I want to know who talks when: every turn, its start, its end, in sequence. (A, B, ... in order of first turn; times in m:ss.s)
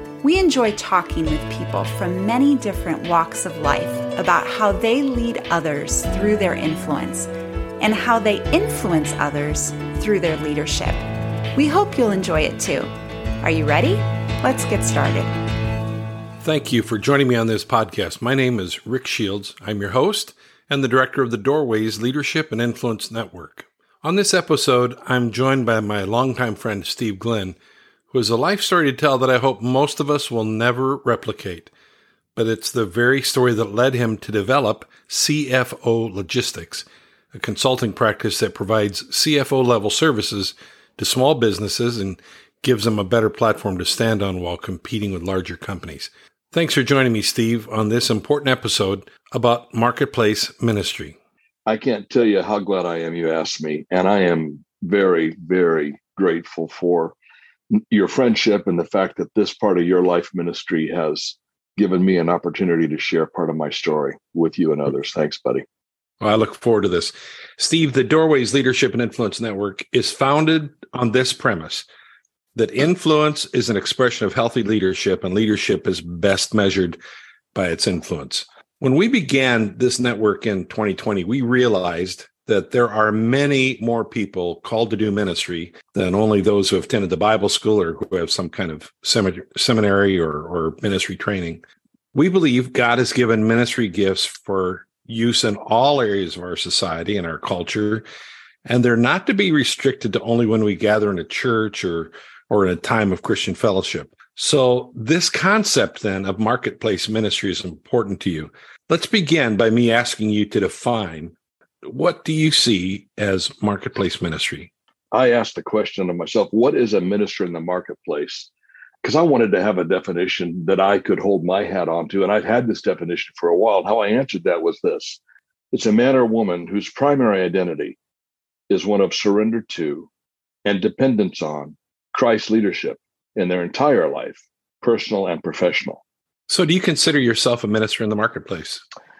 0:00.2-0:07.3 A
0:07.8-0:11.0 A
0:11.6-0:12.9 A
0:13.4-0:15.3 A
0:16.4-0:27.6 B
0:28.1-0:31.7 B
0:32.4-0:51.2 B
0:51.7-0:57.2 C
0:57.7-1:05.6 C
1:06.2-1:11.8 B
1:12.6-1:17.0 B
1:17.5-1:31.6 B
1:32.1-1:38.0 B
1:38.6-1:54.7 B
1:55.1-1:58.5 C
1:59.0-2:05.2 C
2:05.7-2:08.0 C
2:08.7-2:10.1 C
2:10.6-2:16.0 C
2:16.5-2:18.8 B